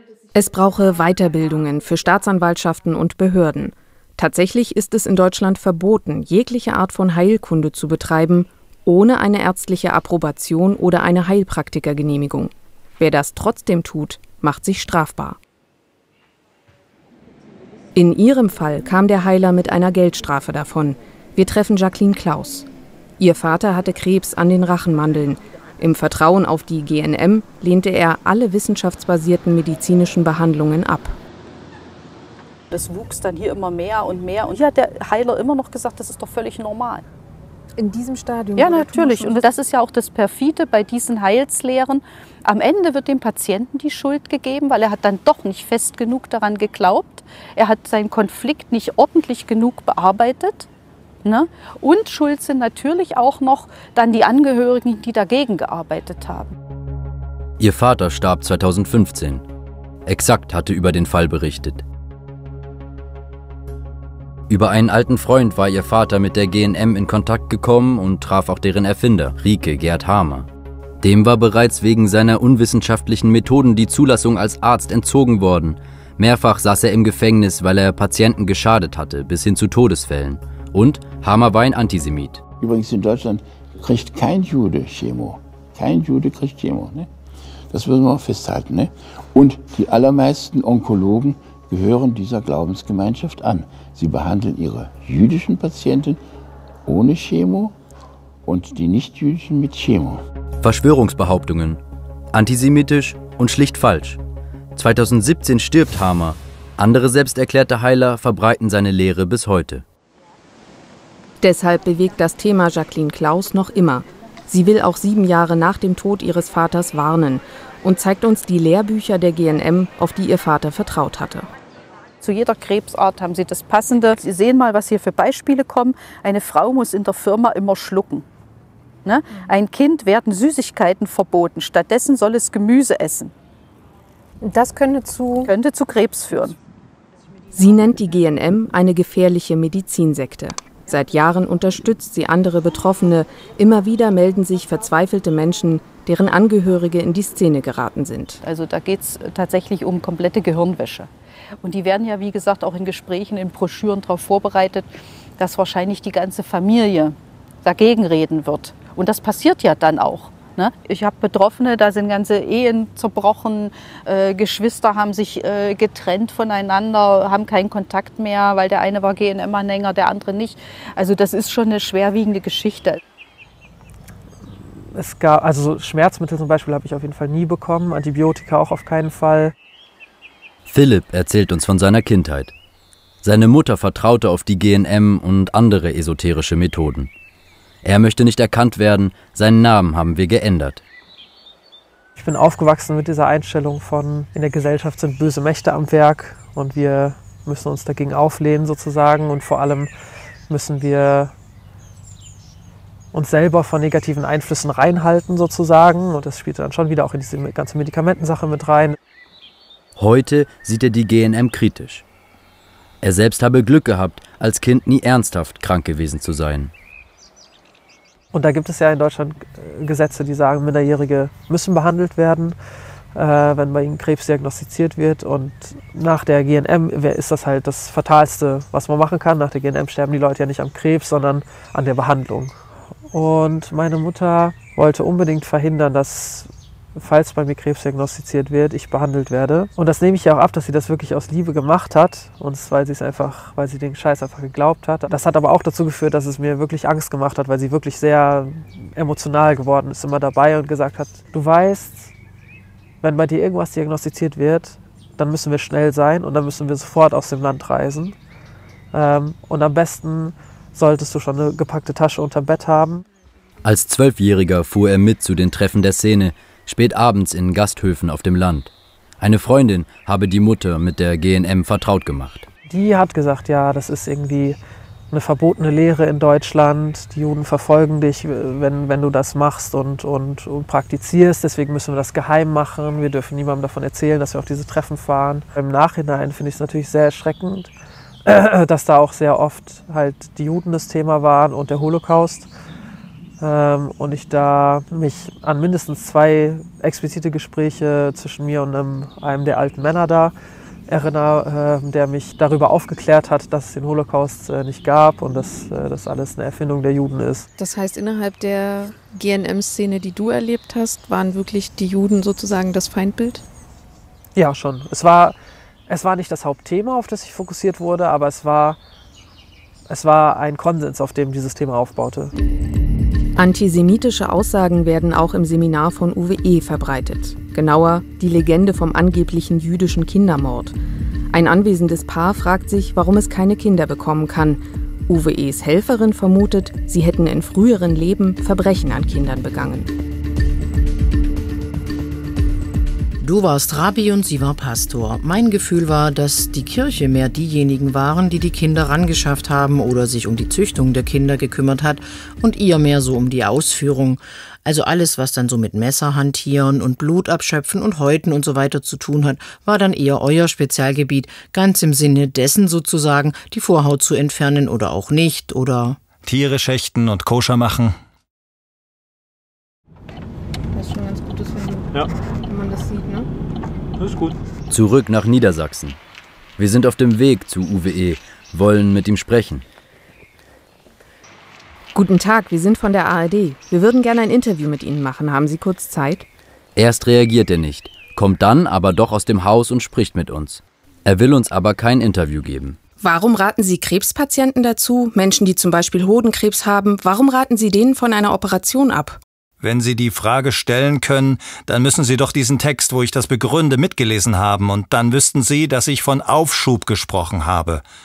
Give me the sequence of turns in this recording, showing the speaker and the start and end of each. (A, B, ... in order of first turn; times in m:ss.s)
0:00.3-0:15.4 A
0:18.0-0:22.7 A
0:23.2-0:31.2 A
0:32.7-0:37.0 B
0:37.8-0:39.4 C
0:38.6-0:50.7 B
0:51.2-0:56.5 B
0:57.6-0:59.4 D
1:00.1-1:01.8 D
1:04.5-1:10.5 D
1:11.0-1:22.4 D
1:22.6-1:27.1 E
1:27.7-1:36.2 E
1:36.9-1:37.7 E
1:38.5-1:40.2 E
1:40.6-1:41.8 D
1:42.3-1:44.2 D
1:44.8-1:49.8 D
1:51.4-2:01.5 A
2:02.2-2:08.3 B
2:09.0-2:13.3 B
2:14.4-2:15.5 C
2:15.4-2:16.6 B
2:17.5-2:28.4 A
2:28.4-2:31.1 B
2:31.6-2:53.0 B
2:54.9-2:59.5 F
3:00.7-3:02.5 D
3:03.2-3:07.1 D
3:07.8-3:10.8 D
3:12.2-3:19.9 F
3:20.5-3:21.3 F
3:23.1-3:29.0 F
3:30.0-3:32.0 D
3:33.0-3:36.7 D
3:38.3-3:42.6 F
3:43.2-3:52.6 F
3:53.1-4:12.1 F
4:13.0-4:18.2 F
4:18.9-4:23.0 F
4:23.6-4:32.5 D
4:32.7-4:34.6 F
4:35.1-4:47.7 F
4:48.2-4:52.5 F
4:53.4-5:00.3 F
5:00.9-5:07.5 F
5:07.6-5:13.4 C
5:14.4-5:15.4 F
5:15.9-5:18.8 F
5:19.9-5:22.3 F
5:23.4-5:30.7 A
5:31.3-5:39.9 A
5:43.2-6:06.0 G
6:06.2-6:08.0 H
6:10.8-6:11.8 C
6:12.5-6:13.3 C
6:14.7-6:16.0 D
6:16.6-6:19.6 D
6:22.0-6:26.3 A
6:26.8-6:32.8 D
6:33.0-6:39.2 A
6:39.6-6:47.8 H